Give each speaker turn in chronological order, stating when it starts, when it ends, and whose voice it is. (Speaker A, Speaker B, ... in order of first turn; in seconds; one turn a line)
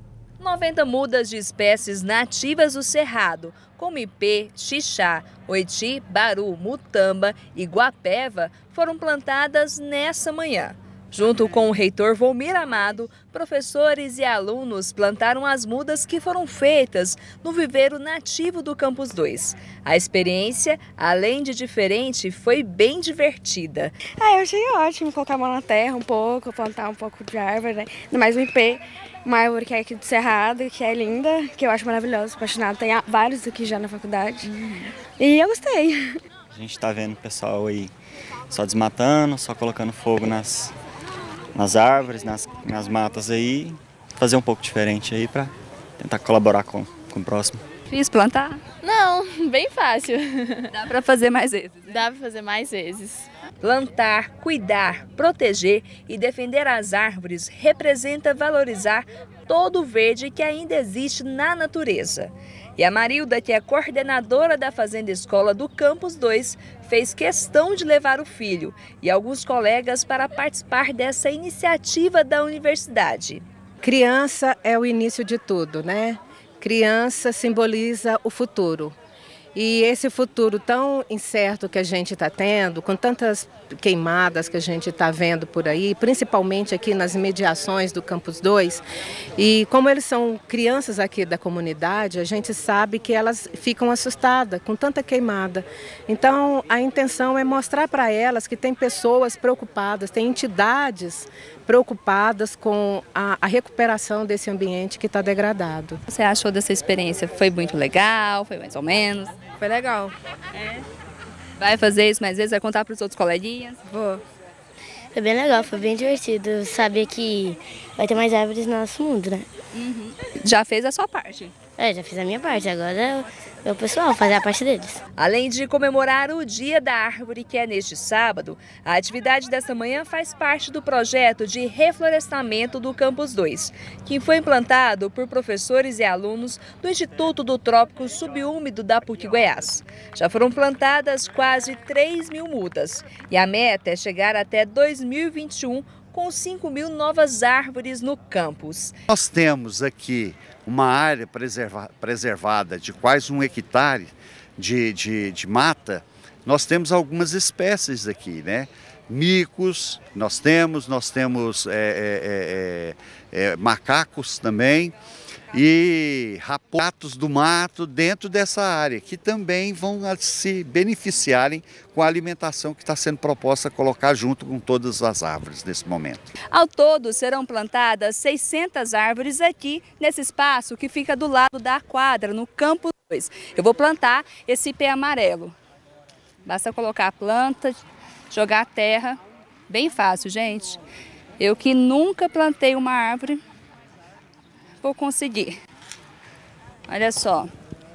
Speaker A: 0.4-23.9
Speaker B: 24.2-36.1
Speaker C: 36.5-37.9
Speaker C: 38.5-40.7
Speaker C: 41.5-47.6
Speaker A: 47.9-48.6
Speaker D: 48.8-50.7
Speaker A: 50.7-52.1
Speaker D: 51.9-53.2
Speaker A: 53.6-73.4
Speaker E: 73.8-78.9
Speaker E: 79.5-88.8
Speaker E: 89.4-106.0
Speaker A: 106.1-110.0
Speaker A: 111.6-113.9
Speaker F: 115.1-119.5
Speaker A: 119.7-121.5
Speaker F: 121.8-125.0
Speaker A: 125.2-148.9
Speaker G: 149.1-164.9
Speaker G: 165.5-176.3
Speaker A: 176.5-185.5
Speaker A: 186.4-187.8
Speaker A: 188.3-190.8
Speaker A: 191.4-193.4
Speaker A: 194.8-195.6
Speaker A: 196.9-197.5